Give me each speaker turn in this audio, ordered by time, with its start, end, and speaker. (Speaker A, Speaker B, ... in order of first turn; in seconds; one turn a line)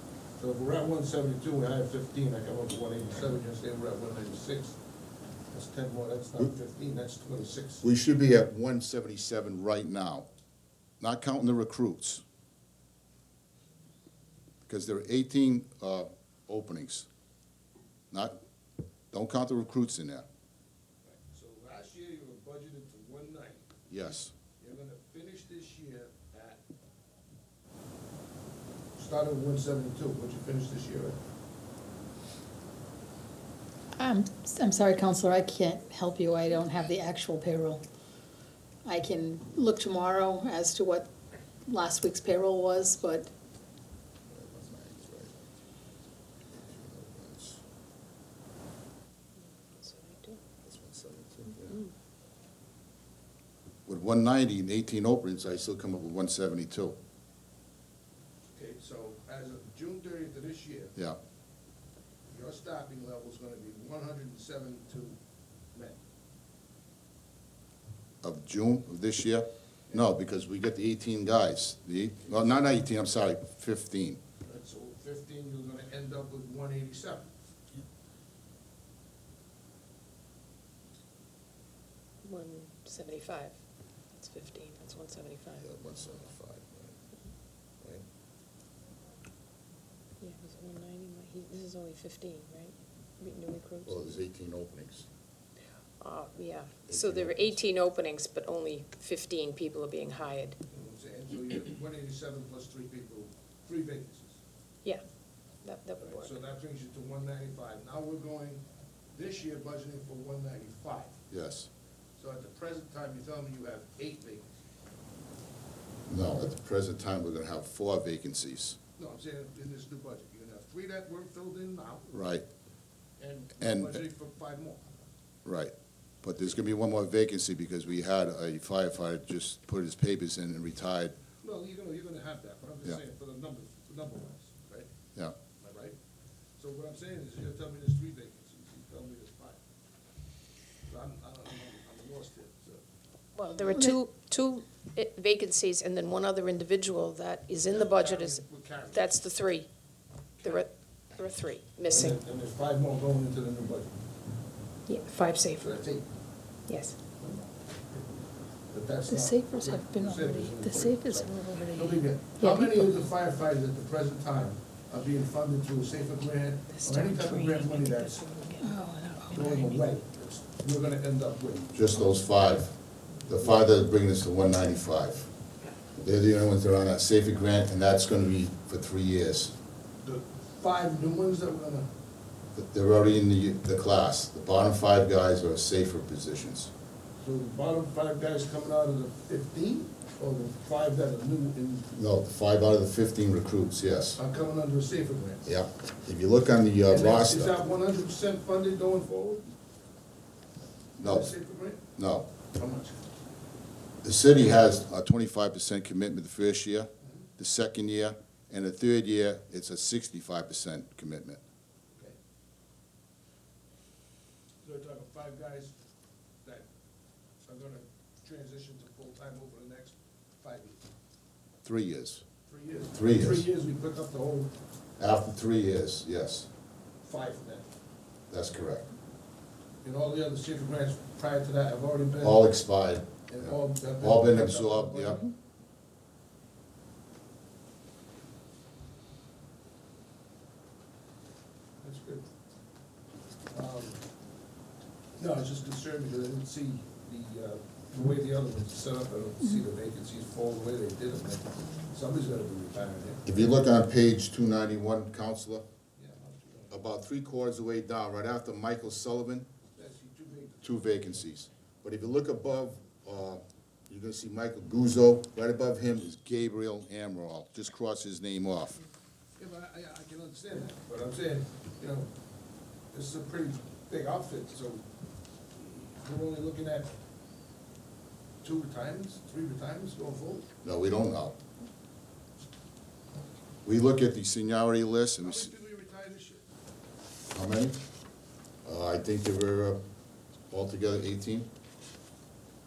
Speaker A: 0.4-4.8
Speaker A: 5.5-7.8
Speaker B: 7.8-10.2
Speaker B: 11.0-12.2
Speaker B: 14.7-17.1
Speaker B: 19.1-20.2
Speaker A: 21.0-26.6
Speaker B: 23.9-24.3
Speaker A: 29.0-31.2
Speaker C: 34.0-37.8
Speaker C: 38.8-41.1
Speaker C: 41.6-43.3
Speaker B: 44.3-45.5
Speaker B: 46.5-47.6
Speaker D: 49.4-50.4
Speaker B: 50.6-51.8
Speaker D: 51.6-51.9
Speaker B: 53.9-57.0
Speaker A: 58.5-60.9
Speaker A: 62.3-65.2
Speaker A: 65.7-66.0
Speaker B: 68.2-74.2
Speaker A: 74.4-77.3
Speaker D: 82.2-83.6
Speaker D: 84.2-85.7
Speaker B: 85.6-87.0
Speaker D: 90.2-94.0
Speaker B: 93.8-95.0
Speaker D: 96.0-100.6
Speaker B: 96.9-97.6
Speaker A: 100.7-104.4
Speaker D: 105.6-106.3
Speaker A: 106.0-108.6
Speaker A: 109.1-111.2
Speaker B: 111.3-111.7
Speaker A: 112.2-114.5
Speaker B: 116.1-118.8
Speaker A: 119.0-122.1
Speaker B: 122.1-122.4
Speaker A: 123.2-124.8
Speaker B: 123.6-124.0
Speaker B: 125.4-131.1
Speaker A: 131.4-134.9
Speaker A: 135.6-136.0
Speaker A: 136.6-139.6
Speaker A: 140.8-142.8
Speaker D: 143.3-149.7
Speaker C: 143.7-143.9
Speaker A: 147.6-149.3
Speaker A: 150.4-150.7
Speaker D: 150.4-152.2
Speaker A: 151.9-154.0
Speaker D: 154.9-155.7
Speaker A: 155.6-156.1
Speaker D: 156.7-156.9
Speaker A: 157.2-158.0
Speaker A: 158.7-168.4
Speaker C: 159.1-162.8
Speaker D: 166.7-169.6
Speaker C: 168.6-169.6
Speaker A: 169.3-172.1
Speaker B: 171.7-175.3
Speaker B: 176.0-179.5
Speaker A: 180.0-181.9
Speaker B: 182.5-186.7
Speaker A: 187.2-191.9
Speaker B: 191.9-194.2
Speaker A: 194.2-195.5
Speaker B: 195.4-197.6
Speaker A: 196.9-199.5
Speaker B: 201.0-201.3
Speaker A: 201.0-201.8
Speaker B: 201.9-202.3
Speaker A: 202.5-203.0
Speaker B: 204.0-211.4
Speaker A: 207.0-207.3
Speaker A: 214.6-215.8
Speaker A: 216.4-216.7
Speaker A: 217.4-220.8
Speaker B: 221.6-222.2
Speaker A: 222.5-224.5
Speaker B: 222.9-223.4
Speaker B: 225.0-226.5
Speaker A: 227.0-227.7
Speaker B: 228.3-228.8
Speaker A: 229.8-232.5
Speaker B: 232.2-235.2
Speaker A: 233.3-235.3
Speaker A: 241.8-242.2
Speaker A: 243.5-244.0
Speaker A: 245.2-253.3
Speaker B: 253.2-255.6
Speaker A: 256.0-256.7
Speaker B: 256.7-259.5
Speaker A: 259.7-261.1
Speaker B: 260.6-268.8
Speaker A: 269.4-272.1
Speaker A: 272.9-274.9
Speaker A: 275.5-276.9
Speaker A: 278.4-280.5
Speaker B: 280.6-281.4
Speaker B: 283.6-285.5
Speaker A: 285.2-286.4
Speaker B: 287.3-287.8
Speaker B: 288.6-289.8
Speaker B: 290.5-291.5